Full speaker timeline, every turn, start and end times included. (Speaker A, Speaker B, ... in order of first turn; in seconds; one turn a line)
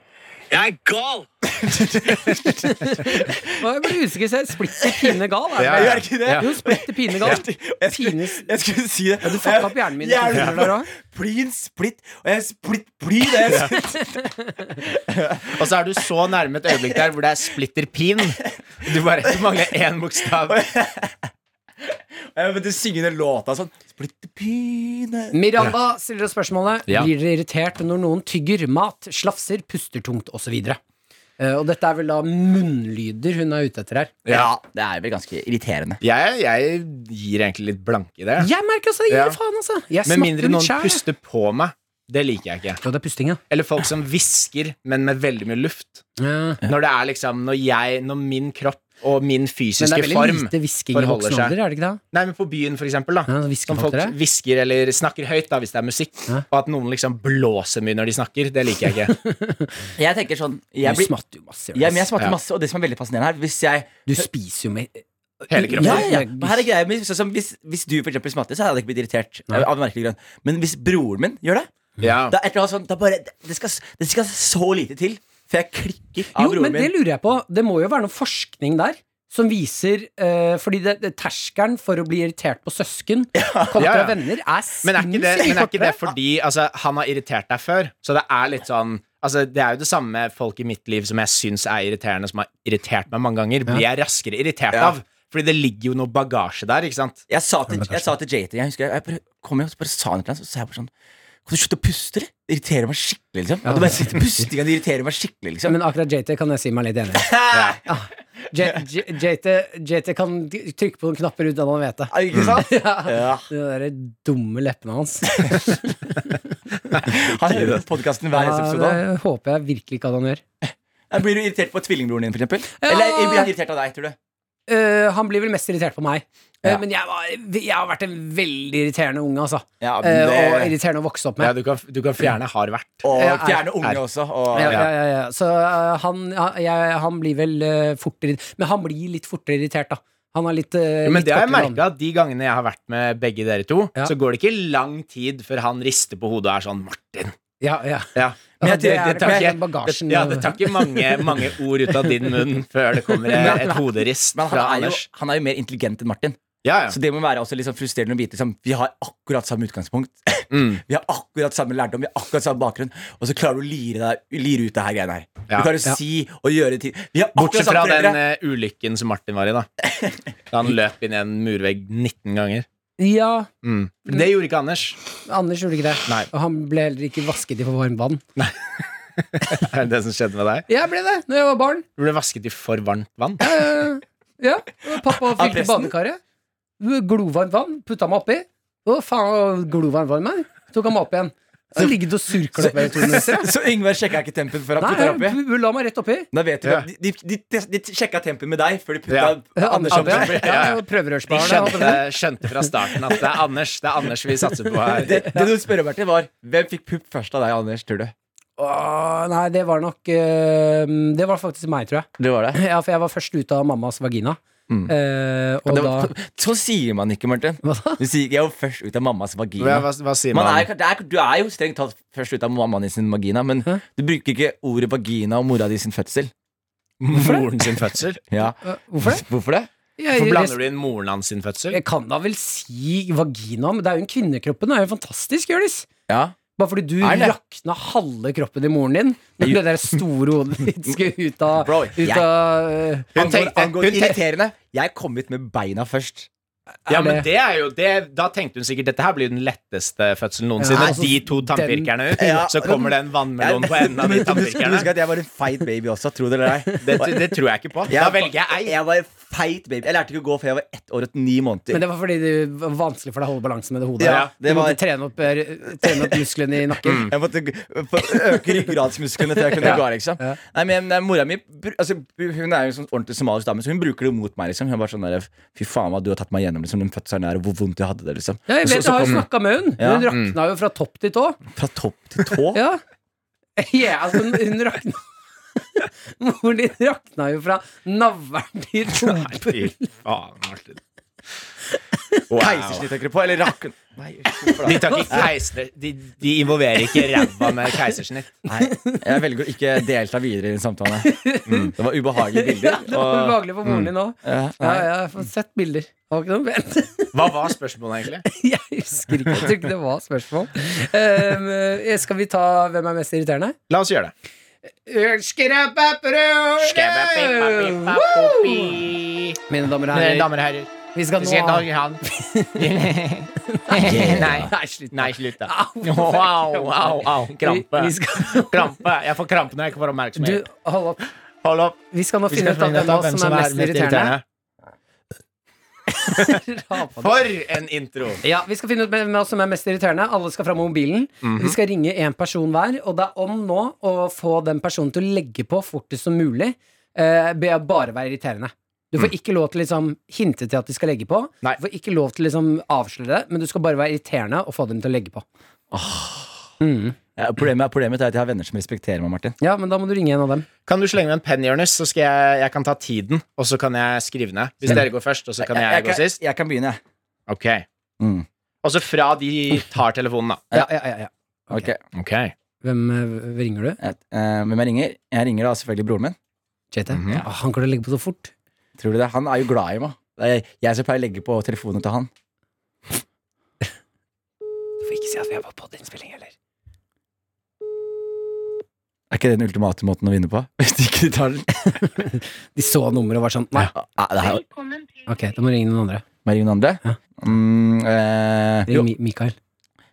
Speaker A: 0.5-3.6
Speaker B: 2.3-8.5
Speaker A: 4.8-15.7
Speaker C: 5.6-6.5
Speaker B: 9.2-10.9
Speaker C: 10.3-10.6
Speaker C: 13.5-13.7
Speaker B: 14.0-14.8
Speaker C: 15.5-20.6
Speaker A: 18.4-19.6
Speaker A: 20.4-21.2
Speaker A: 22.3-25.4
Speaker B: 25.3-30.8
Speaker B: 31.4-34.1
Speaker C: 34.2-34.5
Speaker A: 34.3-36.0
Speaker C: 36.0-38.5
Speaker B: 38.4-41.0
Speaker C: 39.1-39.4
Speaker C: 40.0-42.8
Speaker B: 42.8-43.4
Speaker C: 43.5-46.0
Speaker B: 46.2-46.6
Speaker C: 46.6-51.6
Speaker B: 49.8-52.0
Speaker C: 52.1-59.1
Speaker B: 53.3-54.1
Speaker B: 59.1-59.8
Speaker A: 60.0-61.1
Speaker B: 60.8-62.0
Speaker A: 61.7-64.2
Speaker B: 64.1-66.6
Speaker C: 65.5-66.1
Speaker A: 65.7-71.7
Speaker C: 72.0-72.3
Speaker A: 72.3-76.9
Speaker B: 76.3-86.1
Speaker A: 83.3-83.8
Speaker C: 83.8-84.2
Speaker C: 84.8-97.2
Speaker A: 97.3-100.9
Speaker B: 97.7-98.1
Speaker A: 101.5-105.8
Speaker B: 103.7-104.5
Speaker B: 105.7-107.3
Speaker A: 107.2-107.8
Speaker C: 107.5-107.8
Speaker B: 107.8-117.1
Speaker A: 112.1-113.5
Speaker C: 112.3-112.6
Speaker A: 115.3-115.6
Speaker C: 116.9-117.8
Speaker A: 117.0-119.0
Speaker B: 118.3-120.4
Speaker A: 121.1-124.2
Speaker B: 122.8-123.5
Speaker B: 124.7-131.5
Speaker A: 129.8-130.7
Speaker C: 131.4-133.1
Speaker A: 133.0-134.9
Speaker B: 133.1-133.7
Speaker B: 134.5-141.8
Speaker C: 141.1-147.3
Speaker B: 147.6-151.2
Speaker A: 148.6-149.6
Speaker C: 149.1-155.1
Speaker A: 153.3-153.8
Speaker A: 154.3-168.2
Speaker C: 156.6-157.0
Speaker C: 160.5-160.8
Speaker C: 167.3-169.7
Speaker C: 170.5-172.7
Speaker B: 173.0-173.5
Speaker C: 173.6-175.0
Speaker B: 175.3-178.2
Speaker C: 178.4-180.7
Speaker B: 180.7-181.9
Speaker C: 182.0-183.5
Speaker B: 183.4-186.2
Speaker A: 185.2-185.9
Speaker B: 186.8-193.5
Speaker A: 192.6-195.4
Speaker B: 194.8-196.3
Speaker A: 196.3-200.7
Speaker C: 199.1-199.4
Speaker B: 199.6-202.0
Speaker C: 199.9-205.2
Speaker A: 205.0-208.1
Speaker B: 208.6-216.1
Speaker A: 212.2-212.6
Speaker A: 215.7-226.3
Speaker B: 217.6-218.0
Speaker C: 219.6-220.7
Speaker C: 227.0-228.2
Speaker A: 228.3-229.7
Speaker B: 228.6-229.2
Speaker B: 230.0-230.6
Speaker C: 230.1-231.8
Speaker B: 231.7-235.9
Speaker A: 236.1-236.4
Speaker B: 236.6-243.1
Speaker A: 237.0-237.4
Speaker A: 241.6-242.3
Speaker C: 243.2-244.2
Speaker A: 243.2-246.3
Speaker B: 246.9-247.3
Speaker C: 246.9-254.9
Speaker B: 250.6-251.9
Speaker A: 252.2-257.2
Speaker C: 256.8-258.7
Speaker A: 257.9-261.8
Speaker B: 261.7-267.1
Speaker A: 264.0-264.8
Speaker C: 264.0-264.3
Speaker A: 265.8-266.1
Speaker A: 266.9-279.3
Speaker B: 269.7-270.4
Speaker B: 278.5-281.4
Speaker A: 279.8-280.1
Speaker C: 280.1-280.4
Speaker A: 281.6-282.6
Speaker B: 282.5-282.8
Speaker B: 283.6-285.0
Speaker B: 285.6-289.9
Speaker C: 289.0-290.8
Speaker C: 292.3-292.9
Speaker A: 292.3-295.3
Speaker C: 294.6-298.4
Speaker B: 294.7-295.2
Speaker B: 297.0-297.3
Speaker A: 298.5-301.2
Speaker B: 298.6-299.0
Speaker B: 301.1-307.3
Speaker A: 301.7-303.4
Speaker A: 304.2-304.9
Speaker C: 307.1-308.2
Speaker B: 308.3-313.6
Speaker C: 313.7-314.1
Speaker B: 314.9-318.8
Speaker C: 316.6-319.4
Speaker B: 319.5-320.3
Speaker C: 319.9-322.0
Speaker B: 320.9-322.7
Speaker C: 322.5-330.4
Speaker B: 323.5-328.8
Speaker A: 323.8-324.5
Speaker B: 330.2-331.1
Speaker C: 331.4-331.8
Speaker B: 331.9-334.2
Speaker C: 332.3-334.2
Speaker B: 335.9-337.2
Speaker C: 336.1-336.4
Speaker C: 336.9-338.2
Speaker B: 338.2-355.2
Speaker C: 341.2-341.6
Speaker A: 355.7-356.5
Speaker B: 356.6-357.0
Speaker A: 357.2-359.4
Speaker B: 359.4-360.5
Speaker C: 360.7-366.2
Speaker A: 365.4-366.8
Speaker C: 367.3-367.6
Speaker A: 368.0-368.3
Speaker C: 368.6-370.4
Speaker B: 370.5-371.7
Speaker A: 371.5-371.8
Speaker C: 371.9-372.3
Speaker B: 372.6-373.8
Speaker A: 373.8-376.2
Speaker B: 376.7-378.3
Speaker C: 376.9-377.2
Speaker A: 378.8-382.1
Speaker B: 384.8-386.3
Speaker A: 389.1-391.8
Speaker B: 391.6-393.7
Speaker A: 393.7-394.4
Speaker B: 395.0-396.1
Speaker A: 396.2-398.9
Speaker B: 398.7-399.4